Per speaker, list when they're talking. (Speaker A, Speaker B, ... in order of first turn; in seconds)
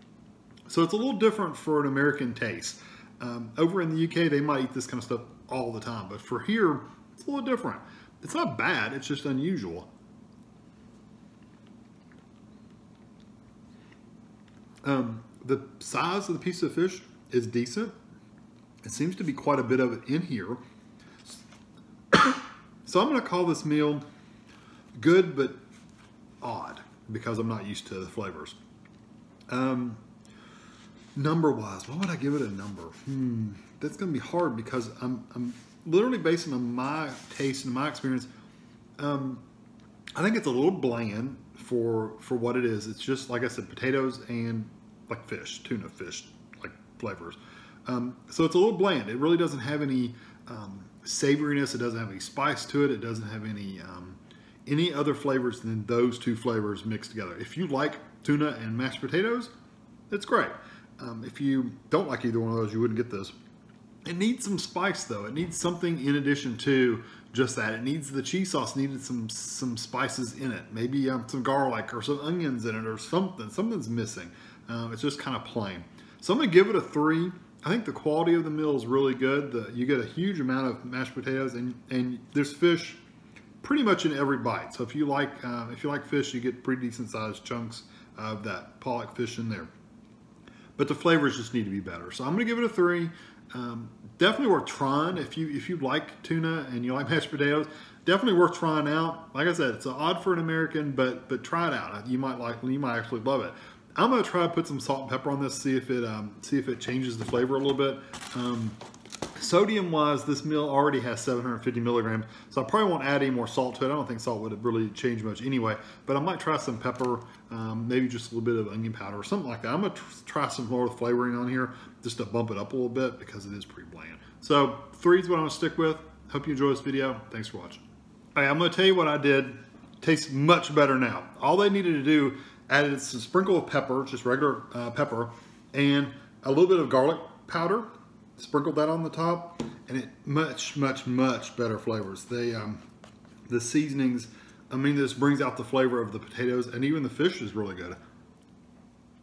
Speaker A: 0.7-9.9, 14.8-17.9, 18.8-20.6, 22.1-24.0, 24.9-25.6, 26.4-28.6, 29.5-30.0, 31.1-38.3, 39.0-39.4, 40.1-59.5, 60.1-63.3, 64.1-83.0, 83.6-89.7, 90.8-108.8, 109.3-127.8, 128.3-142.8, 143.5-148.0